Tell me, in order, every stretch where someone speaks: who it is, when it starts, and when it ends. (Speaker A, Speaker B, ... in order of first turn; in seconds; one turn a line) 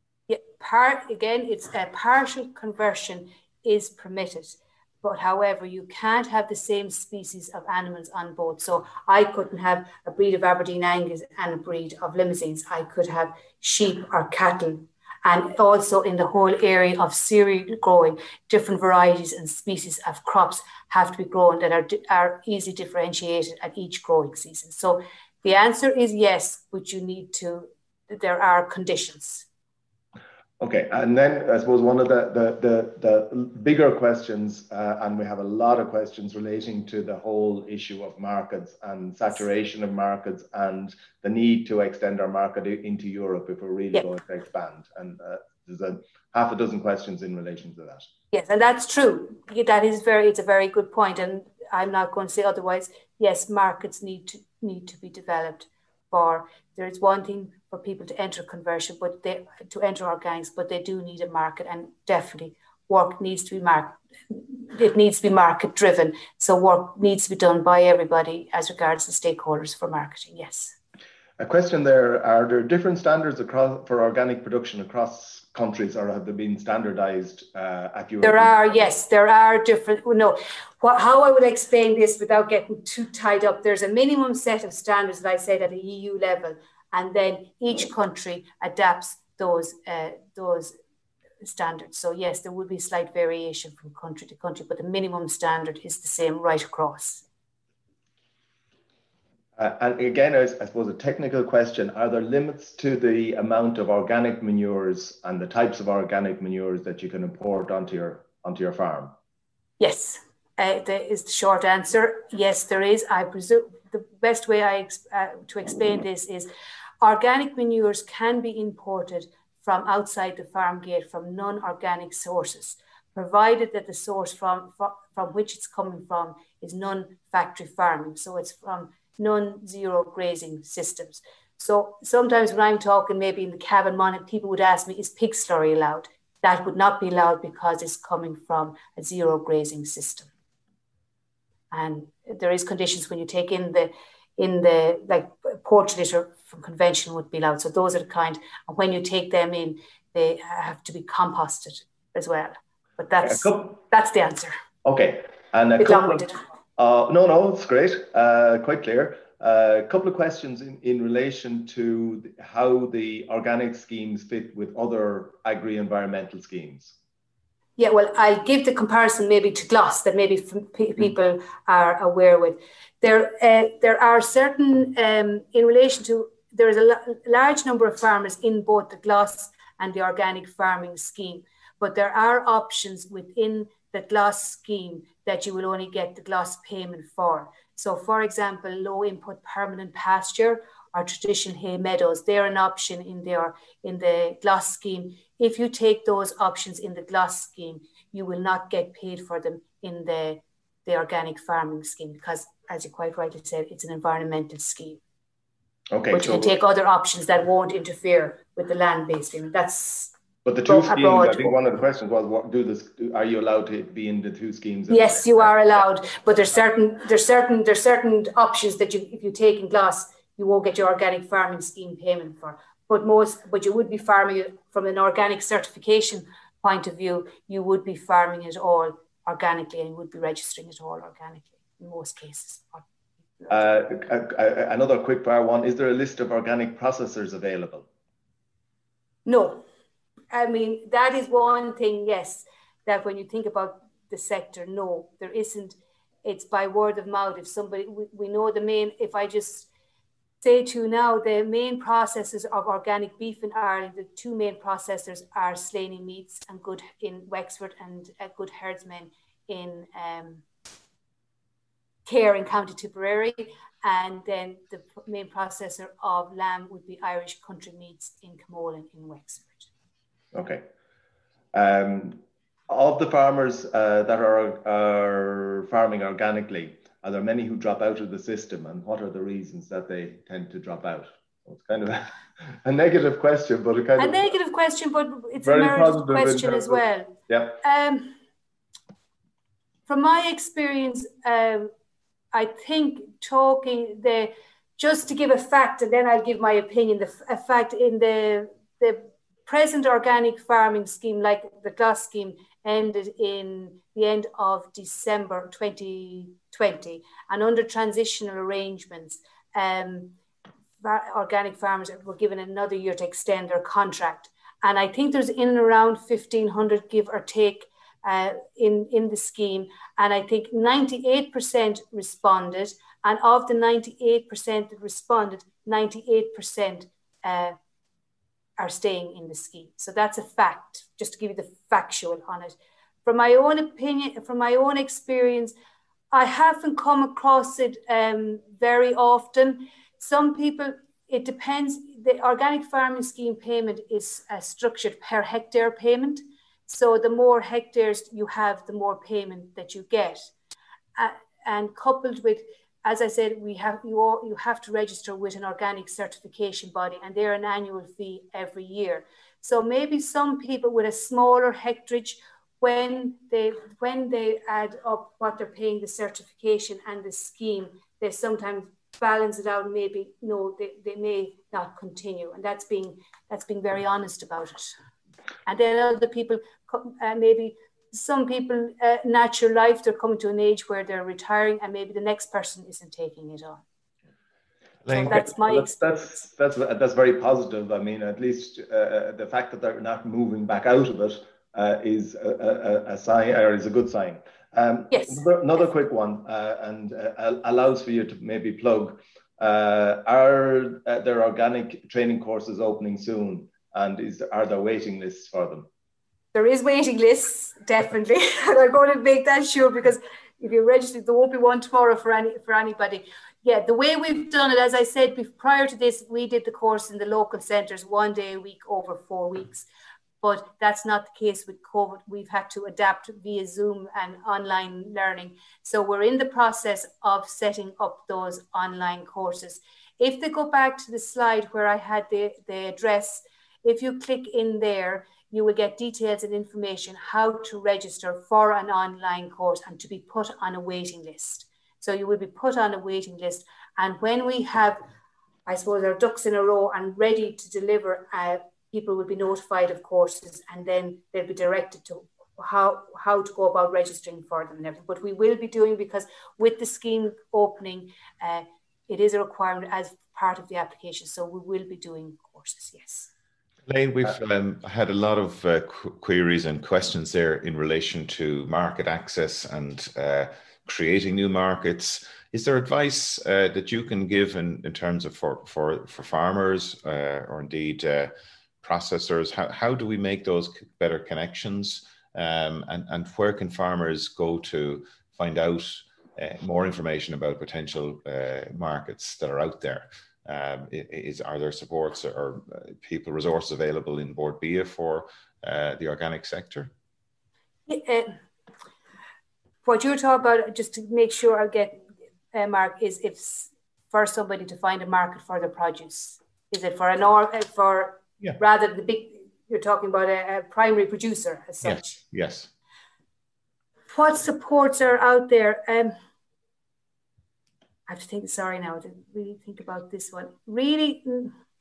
Speaker A: 0.3-29.5
Speaker B: 30.6-48.1
Speaker A: 48.3-70.8
Speaker B: 71.4-78.7
Speaker A: 78.2-90.7
Speaker A: 91.4-97.2
Speaker B: 99.6-109.1
Speaker A: 109.8-116.5
Speaker A: 117.0-140.3
Speaker A: 141.7-154.6
Speaker B: 153.2-153.8
Speaker B: 154.8-166.9
Speaker A: 155.8-156.4
Speaker A: 167.8-205.0
Speaker B: 205.9-206.5
Speaker A: 206.1-210.1
Speaker B: 210.4-215.5
Speaker A: 210.7-211.5
Speaker A: 214.9-232.8
Speaker A: 233.4-233.6
Speaker B: 233.5-237.9
Speaker A: 239.3-239.6
Speaker A: 240.3-249.7
Speaker A: 250.4-260.4
Speaker A: 262.1-269.7
Speaker B: 270.3-270.7
Speaker B: 271.5-284.4
Speaker A: 284.0-288.1
Speaker B: 285.4-287.6
Speaker A: 289.9-291.7
Speaker A: 292.3-310.1
Speaker A: 310.8-327.6
Speaker A: 328.6-335.5
Speaker A: 336.1-350.3
Speaker A: 351.0-374.7
Speaker A: 375.5-383.6
Speaker C: 384.9-385.2
Speaker A: 384.9-385.8
Speaker B: 385.1-405.7
Speaker A: 394.9-395.2
Speaker A: 406.3-419.7
Speaker A: 420.2-444.8
Speaker A: 445.5-463.1
Speaker C: 463.7-478.1
Speaker C: 478.6-496.7
Speaker A: 497.7-498.2
Speaker A: 499.6-512.0
Speaker C: 511.6-512.5
Speaker A: 513.9-516.0
Speaker A: 517.9-521.3